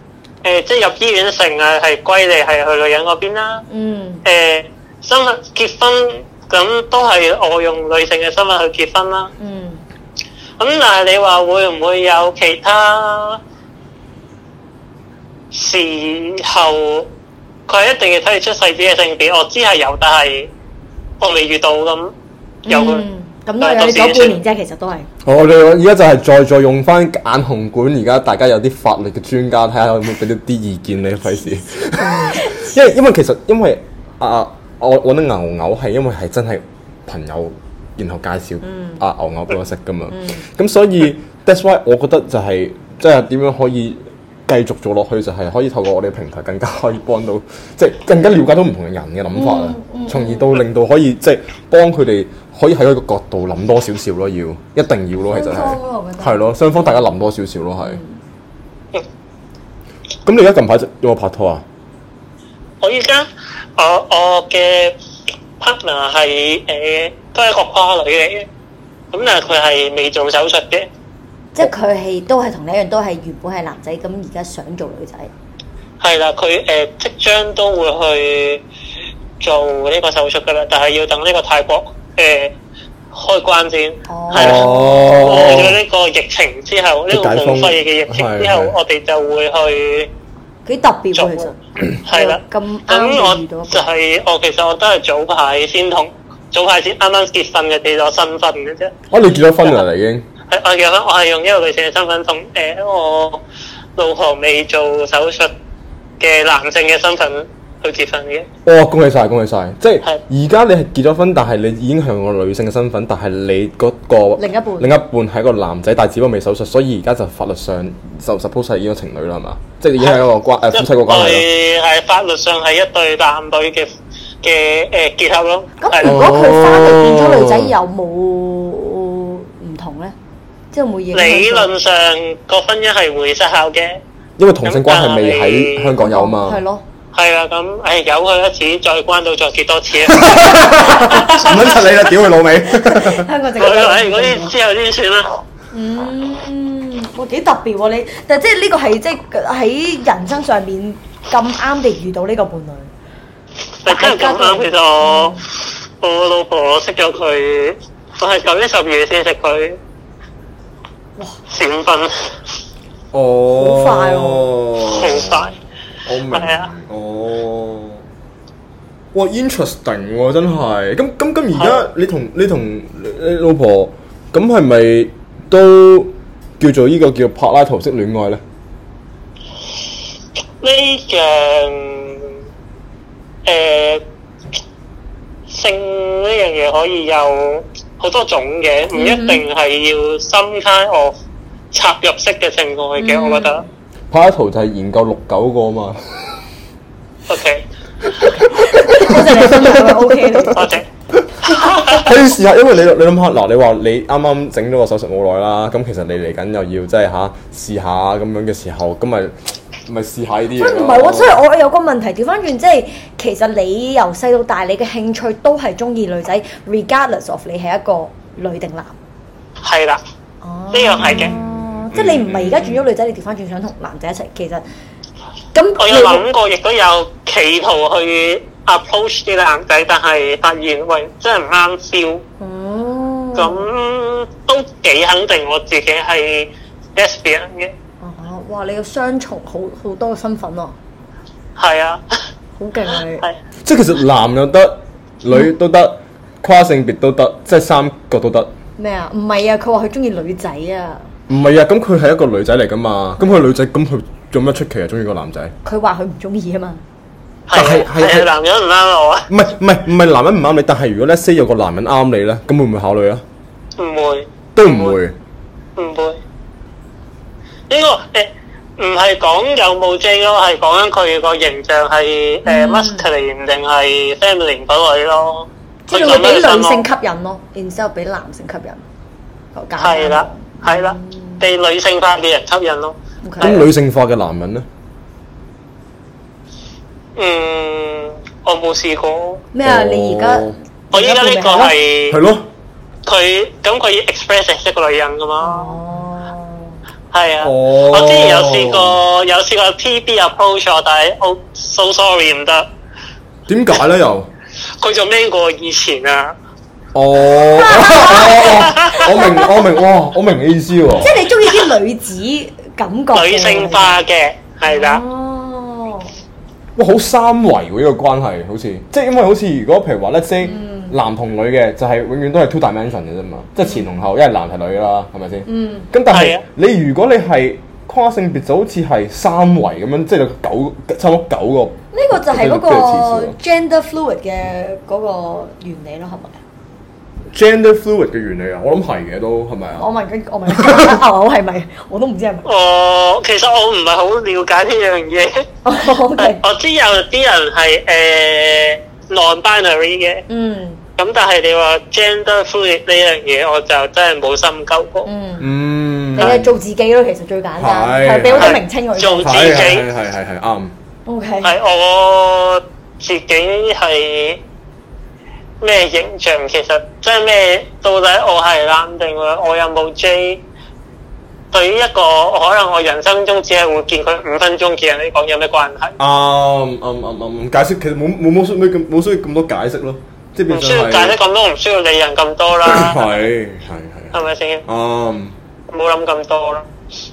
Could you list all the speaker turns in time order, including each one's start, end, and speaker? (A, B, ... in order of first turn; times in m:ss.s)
0:00.4-0:03.6 A
0:03.7-0:04.2 B
0:04.2-0:09.3 A
0:09.4-0:09.8 B
0:10.6-0:13.4 A
0:15.5-0:17.1 A
0:17.7-0:20.5 A
0:21.2-0:22.1 A
0:22.6-0:25.1 B
0:22.7-0:23.0 A
0:23.6-0:24.4 A
0:25.2-0:58.0 C
0:31.9-0:32.8 B
0:38.6-0:39.0 B
0:40.1-0:40.4 B
0:49.3-0:50.6 B
0:55.3-0:57.0 B
0:57.8-0:58.2 B
1:00.2-1:01.6 C
1:02.8-1:05.0 A
1:05.6-1:08.5 A
1:09.1-1:10.9 A
1:11.5-1:15.3 B
1:16.0-1:18.6 A
1:19.4-1:22.5 A
1:23.1-1:30.1 A
1:24.1-1:25.1 B
1:24.3-1:25.8 C
1:27.1-1:28.8 C
1:30.6-1:33.9 B
1:31.2-1:31.5 A
1:32.0-1:38.9 A
1:39.1-1:40.2 C
1:40.5-1:43.4 A
1:44.0-1:45.5 A
1:46.2-1:48.5 A
1:48.6-2:01.5 C
1:54.4-1:54.9 B
2:00.7-2:03.9 A
2:04.4-2:06.2 A
2:05.8-2:10.1 B
2:06.0-2:07.7 C
2:10.7-2:11.7 B
2:11.1-2:14.0 A
2:14.4-2:16.6 C
2:14.6-2:15.9 A
2:16.0-2:16.8 B
2:17.1-2:21.8 A
2:20.0-2:23.3 C
2:22.7-2:24.5 B
2:23.6-2:25.4 A
2:25.7-2:32.9 B
2:33.8-2:39.8 A
2:33.9-2:35.4 B
2:41.5-2:42.3 A
2:43.1-2:45.5 C
2:43.5-2:44.5 B
2:44.8-2:45.6 A
2:46.0-2:48.0 C
2:46.3-2:46.7 A
2:49.1-2:58.4 C
2:51.6-2:51.8 A
3:00.6-3:02.3 A
3:03.4-3:04.0 A
3:05.5-3:11.1 A
3:08.9-3:09.4 B
3:11.7-3:13.6 A
3:13.0-3:13.6 B
3:14.1-3:16.4 C
3:17.3-3:17.6 A
3:18.2-3:18.5 A
3:18.2-3:20.7 B
3:18.9-3:31.4 C
3:20.5-3:20.8 A
3:21.4-3:22.1 A
3:30.5-3:38.9 B
3:39.6-3:40.0 A
3:40.4-3:44.6 B
3:40.7-3:41.3 A
3:41.0-3:42.9 C
3:45.5-3:46.2 B
3:45.8-3:52.2 A
3:52.4-3:53.7 B
3:53.4-3:57.7 A
3:58.0-4:00.7 B
4:01.6-4:02.2 A
4:02.6-4:03.2 B
4:03.6-4:08.5 C
4:08.8-4:11.1 B
4:11.3-4:15.5 C
4:15.6-4:16.8 B
4:17.5-4:19.3 A
4:17.5-4:18.3 C
4:19.3-4:23.2 C
4:23.8-4:25.0 A
4:24.6-4:25.2 C
4:25.8-4:26.2 A
4:27.7-4:36.9 A
4:32.4-4:33.0 B
4:35.9-4:38.8 B
4:39.5-4:41.4 B
4:39.8-4:43.6 A
4:43.2-4:43.7 B
4:43.4-4:44.6 C
4:47.2-4:49.4 A
4:49.5-4:51.7 B
4:49.6-4:50.6 C
4:50.9-4:52.2 A
4:52.1-4:52.5 C
4:53.0-4:55.8 A
4:55.4-4:56.8 B
4:57.1-5:02.7 A
4:57.4-4:59.0 C
5:03.5-5:04.3 C
5:04.8-5:06.3 A
5:06.9-5:11.2 C
5:07.6-5:09.7 B
5:08.4-5:09.1 A
5:10.9-5:14.0 B
5:13.1-5:15.0 A
5:14.7-5:16.1 B
5:16.8-5:33.4 C
5:20.4-5:21.0 B
5:25.4-5:25.9 B
5:26.1-5:26.4 A
5:31.9-5:36.4 B
5:37.3-5:39.9 C
5:39.8-5:42.5 B
5:40.5-5:41.0 C
5:42.4-5:45.5 A
5:45.6-5:46.4 B
5:46.2-5:50.2 A
5:50.3-5:50.8 B
5:51.0-5:55.1 A
5:55.0-5:55.5 B
5:55.4-5:56.6 C
5:56.1-5:59.6 B
5:57.6-5:58.6 C
5:58.3-5:59.9 A
5:59.2-6:00.7 C
6:01.0-6:01.5 B
6:01.4-6:04.4 A
6:05.6-6:10.4 A
6:11.5-6:16.0 A
6:16.0-6:21.2 C
6:20.5-6:23.3 A
6:22.6-6:25.3 C
6:24.1-6:24.6 A
6:25.7-6:26.7 A